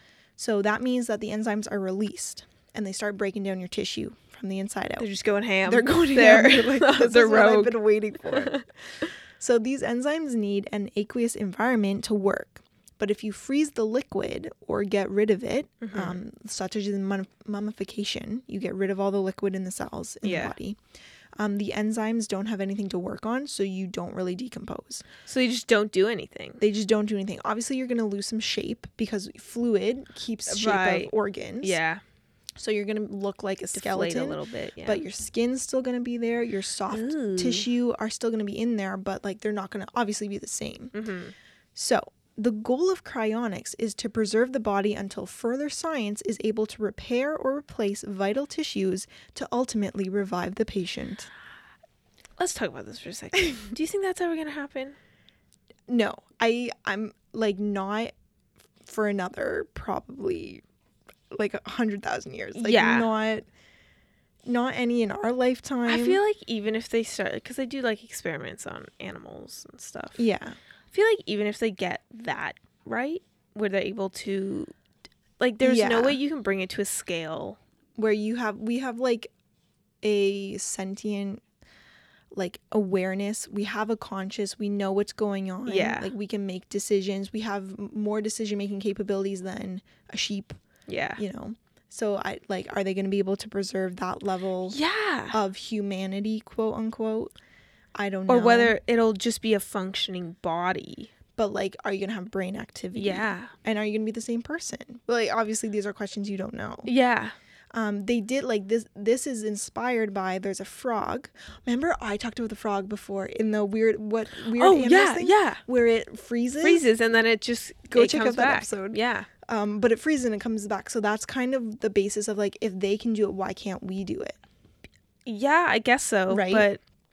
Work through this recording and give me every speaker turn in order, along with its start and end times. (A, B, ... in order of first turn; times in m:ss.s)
0:00.4-0:05.1 A
0:05.0-0:08.6 B
0:05.6-0:08.6 A
0:09.4-0:20.8 A
0:15.8-0:16.2 B
0:20.2-0:20.5 B
0:21.4-0:25.0 A
0:25.2-0:26.6 B
0:26.6-0:31.8 A
0:30.5-0:32.0 B
0:32.6-0:40.9 A
0:33.7-0:35.0 B
0:36.9-0:37.7 B
0:40.9-0:41.3 B
0:41.7-0:51.3 A
0:52.4-0:55.0 B
0:55.9-0:58.1 A
0:58.8-1:00.6 A
1:01.3-1:03.4 A
1:02.5-1:03.1 B
1:04.4-1:06.2 A
1:05.8-1:10.2 B
1:10.1-1:10.6 A
1:10.9-1:14.7 B
1:15.4-1:17.6 B
1:15.6-1:16.2 A
1:18.0-1:19.3 A
1:20.0-1:21.4 A
1:22.3-1:30.6 A
1:25.6-1:26.1 B
1:30.9-1:31.2 B
1:31.2-1:34.8 A
1:34.7-1:35.4 B
1:35.3-1:37.3 A
1:38.0-1:38.8 A
1:38.3-1:41.1 B
1:41.4-1:46.9 A
1:42.9-1:43.5 B
1:46.8-1:47.3 B
1:47.7-1:56.8 A
1:54.5-1:55.6 B
1:56.6-1:59.3 B
1:57.9-2:04.4 A
2:05.2-2:06.8 B
2:06.3-2:06.7 A